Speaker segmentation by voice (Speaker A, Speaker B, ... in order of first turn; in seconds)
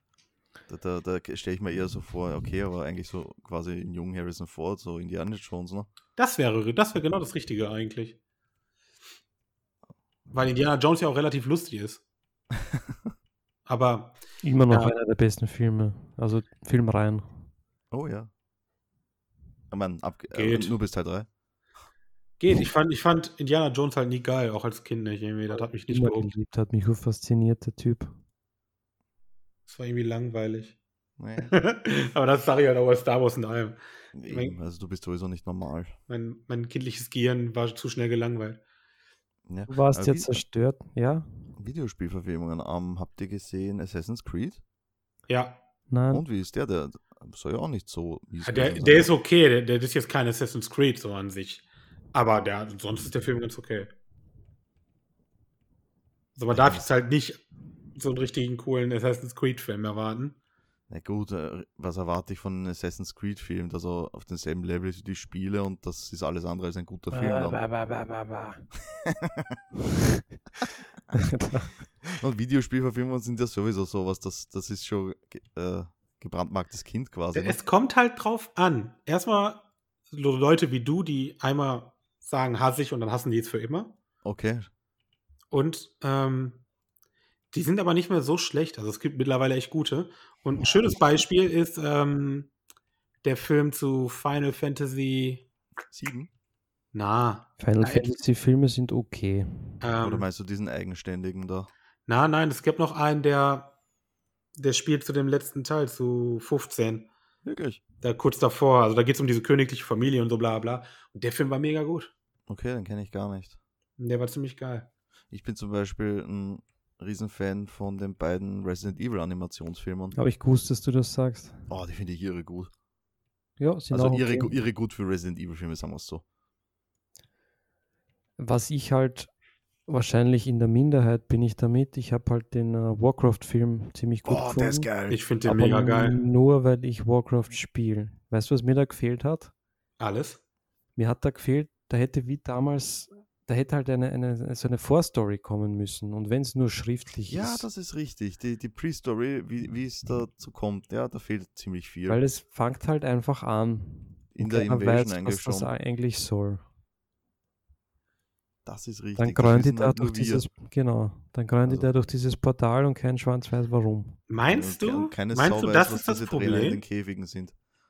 Speaker A: 0.7-5.9, 12.6-13.0, 17.9-18.3, 19.7-21.3, 31.2-31.5, 34.1-36.0, 39.5-40.4, 41.6-44.6, 46.1-49.1, 56.5-56.9, 60.9-67.6, 68.9-69.6, 72.0-77.6, 84.2-84.7, 95.9-96.3, 100.0-101.7, 107.5-107.8, 112.5-113.6, 115.3-120.2, 121.7-122.7, 123.9-126.2, 134.2-135.2, 147.3-152.2, 154.3-155.7, 158.7-160.5, 164.5-167.5
Speaker B: 6.2-8.2, 10.3-12.0, 13.7-14.9, 20.3-20.7, 22.4-26.3, 29.7-30.8, 31.5-34.6, 36.1-38.6, 45.3-45.6, 48.5-53.9, 56.4-57.4, 58.0-60.4, 77.3-83.9, 85.5-86.6, 87.5-92.5, 93.2-95.5, 96.9-98.2, 99.8-100.3, 102.1-103.7, 104.6-107.1, 108.0-112.1, 114.0-114.9, 135.1-136.2, 140.0-140.4, 164.3-166.8
Speaker C: 14.4-17.4, 25.9-28.1, 39.7-41.3, 45.9-46.2, 67.1-68.6, 71.1-71.8, 97.6-99.8, 120.2-121.7, 123.6-124.5, 128.4-129.3, 129.9-134.9, 135.5-139.5, 141.0-147.7, 152.1-156.7, 159.2-164.2